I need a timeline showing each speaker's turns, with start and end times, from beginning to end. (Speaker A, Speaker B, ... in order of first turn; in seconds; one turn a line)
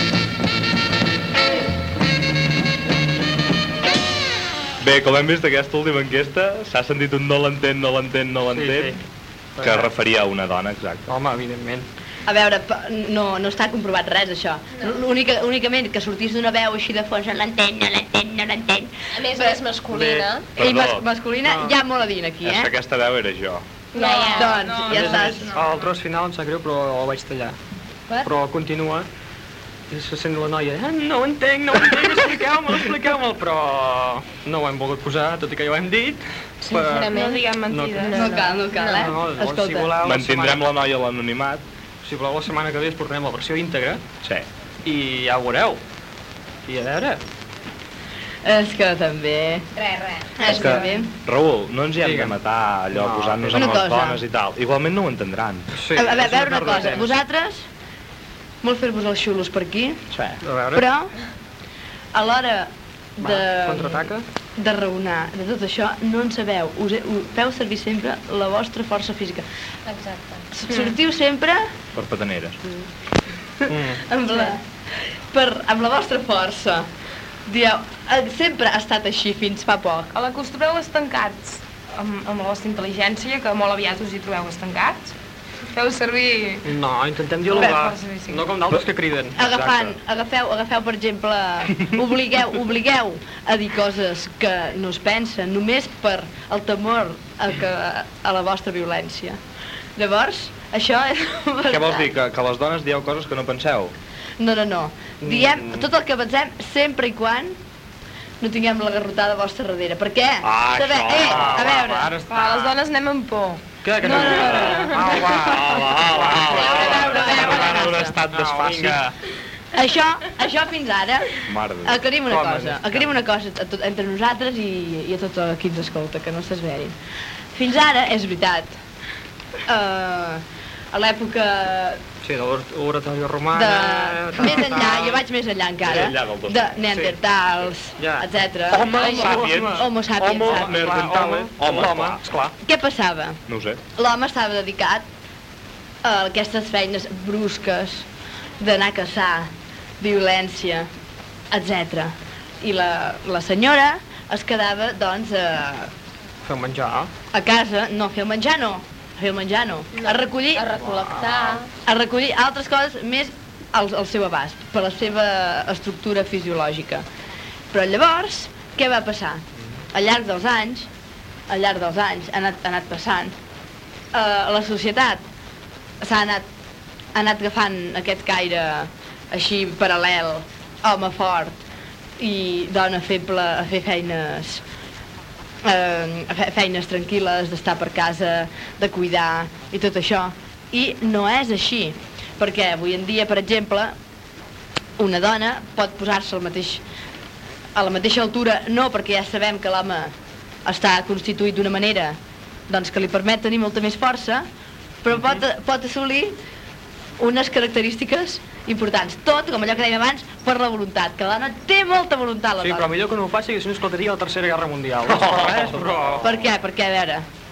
Speaker A: 4.8-9.0
Speaker B: 8.5-9.0
Speaker B: 9.6-9.9
Speaker A: 9.6-11.1
Speaker B: 11.1-11.9
Speaker C: 12.3-19.6
Speaker D: 19.1-20.5
Speaker B: 19.9-20.3
Speaker C: 20.6-22.7
Speaker A: 20.6-21.1
Speaker B: 21.5-21.7
Speaker A: 22.4-23.6
Speaker D: 23.9-24.7
Speaker E: 23.9-25.9
Speaker C: 24.3-25.5
Speaker B: 24.9-27.6
Speaker B: 28.2-29.1
Speaker B: 29.9-37.1
Speaker D: 36.6-39.1
Speaker E: 37.1-38.2
Speaker B: 37.7-38.1
Speaker C: 38.1-39.9
Speaker B: 38.8-40.6
Speaker A: 40.0-41.6
Speaker B: 42.0-44.0
Speaker B: 44.9-45.8
Speaker B: 46.7-47.2
Speaker C: 48.4-49.7
Speaker D: 49.8-50.8
Speaker C: 50.4-51.1
Speaker A: 50.4-55.7
Speaker B: 52.0-52.3
Speaker B: 52.9-53.8
Speaker C: 53.5-54.2
Speaker B: 55.7-57.1
Speaker C: 55.9-57.6
Speaker C: 58.6-60.0
Speaker A: 60.1-60.4
Speaker B: 60.4-60.9
Speaker C: 60.7-61.1
Speaker C: 62.1-69.5
Speaker B: 63.2-64.2
Speaker D: 69.9-70.5
Speaker C: 70.5-71.7
Speaker A: 72.0-72.6
Speaker C: 73.6-74.6
Speaker B: 73.7-74.0
Speaker C: 75.3-76.9
Speaker C: 77.5-80.1
Speaker E: 80.1-85.1
Speaker E: 85.7-86.7
Speaker B: 86.7-89.5
Speaker E: 87.5-88.5
Speaker C: 89.3-99.4
Speaker C: 100.0-102.1
Speaker A: 101.7-103.9
Speaker C: 104.4-107.6
Speaker B: 105.2-105.9
Speaker C: 108.4-112.1
Speaker A: 110.4-111.7
Speaker B: 111.2-112.8
Speaker E: 112.3-115.1
Speaker B: 113.8-117.6
Speaker A: 114.2-119.0
Speaker C: 116.5-118.2
Speaker E: 116.7-117.5
Speaker B: 118.3-119.1
Speaker C: 119.7-127.0
Speaker A: 121.5-122.0
Speaker B: 122.3-123.1
Speaker C: 127.5-128.8
Speaker C: 129.7-132.0
Speaker B: 132.2-135.2
Speaker C: 133.5-140.8
Speaker A: 135.8-136.7
Speaker B: 138.0-138.3
Speaker A: 138.7-142.2
Speaker B: 138.9-142.5
Speaker C: 142.6-143.4
Speaker A: 143.5-143.8
Speaker C: 144.0-145.1
Speaker C: 146.0-148.1
Speaker C: 148.6-150.9
Speaker C: 151.5-155.9
Speaker B: 156.5-157.1
Speaker C: 157.3-160.7
Speaker D: 159.9-161.7
Speaker B: 160.8-161.6
Speaker C: 161.8-167.1
Speaker C: 167.7-170.9
Speaker C: 171.5-173.3
Speaker C: 174.1-175.2
Speaker C: 176.0-176.5
Speaker C: 177.1-181.6
Speaker C: 182.2-184.6
Speaker C: 185.6-193.9
Speaker C: 195.0-196.8
Speaker C: 197.8-200.1
Speaker C: 200.7-202.2
Speaker C: 202.7-204.5
Speaker C: 205.0-206.4
Speaker C: 207.2-212.9
Speaker B: 212.6-216.3
Speaker A: 215.1-215.9
Speaker C: 216.2-217.2